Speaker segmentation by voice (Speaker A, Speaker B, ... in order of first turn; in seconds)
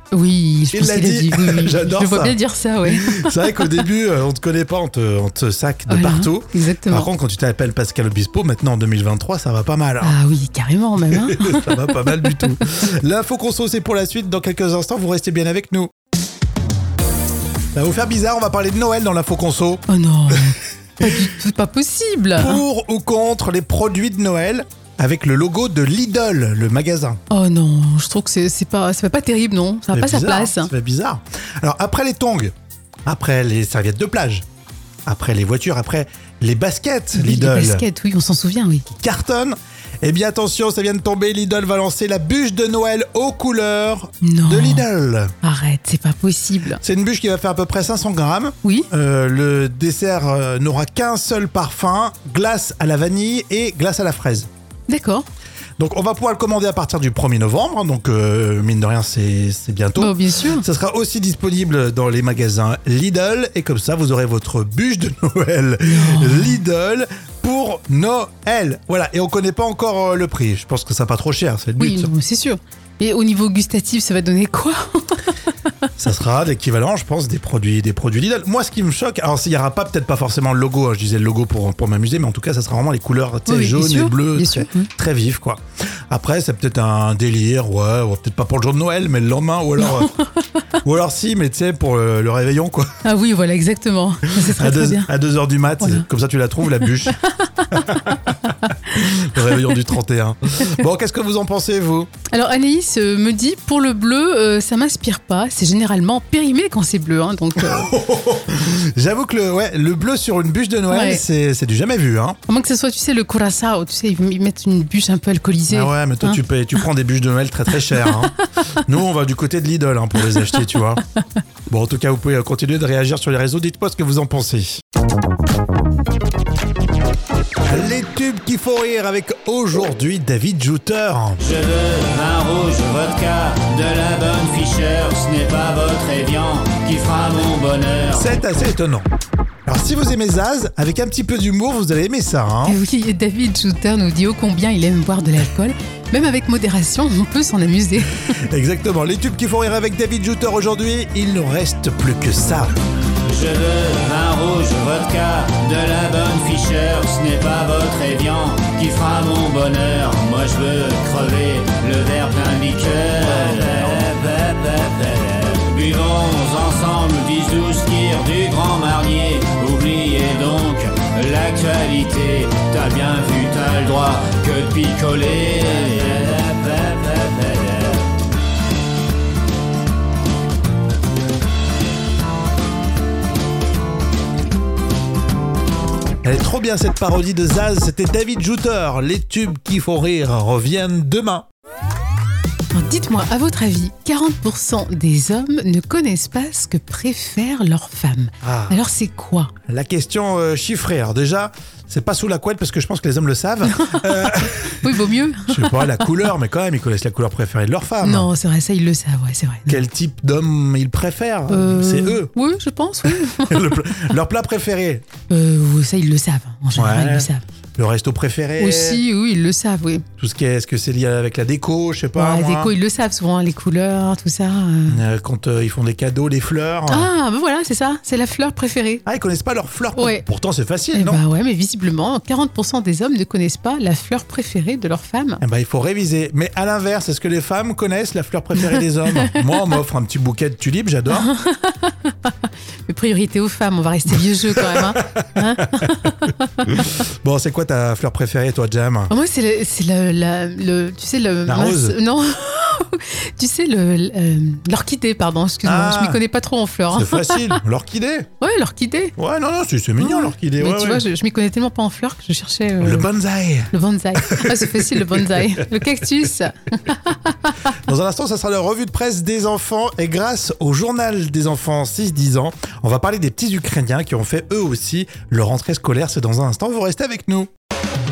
Speaker A: 0.1-3.8, 5.9-7.1, 10.0-12.2, 19.9-22.6, 27.3-30.7, 37.1-38.9, 44.2-44.8, 45.4-46.8, 54.9-55.2, 60.0-60.6, 65.9-66.6, 71.8-75.3, 83.5-84.9, 89.8-90.6, 93.0-95.1, 95.8-96.1, 97.1-98.8, 102.3-108.0, 110.9-111.2, 112.5-116.4, 142.7-148.1, 192.7-199.5, 203.7-206.1, 208.0-209.8, 211.5-213.7, 215.3-217.4, 218.6-220.0, 222.2-225.0, 226.9-229.0, 230.0-230.2, 230.9-235.4, 241.1-246.3, 249.1-257.6, 258.4-259.1, 260.0-263.1, 263.7-267.5
Speaker B: 0.7-10.2, 11.1-15.9, 17.8-19.8, 22.4-27.2, 29.9-32.5, 33.1-34.4, 35.1-37.8, 38.9-45.3, 46.8-54.5, 55.8-72.1, 76.0-90.1, 90.8-92.9, 94.4-97.2, 97.7-98.3, 98.9-102.1, 107.6-112.4, 115.7-121.0, 121.7-124.8, 127.6-131.4, 138.1-139.1, 139.7-142.8, 148.5-152.7, 186.2-191.5, 198.4-198.8, 199.7-204.9, 205.5-208.3, 209.7-212.3, 213.1-215.1, 216.8-219.0, 220.2-222.7, 224.9-227.1, 229.1-231.2, 235.4-241.3, 245.0-245.9, 246.7-249.1, 251.5-252.0, 255.6-256.2, 256.9-258.3, 259.2-261.0, 262.8-265.4, 267.9-277.5
Speaker C: 131.4-138.3, 153.3-178.1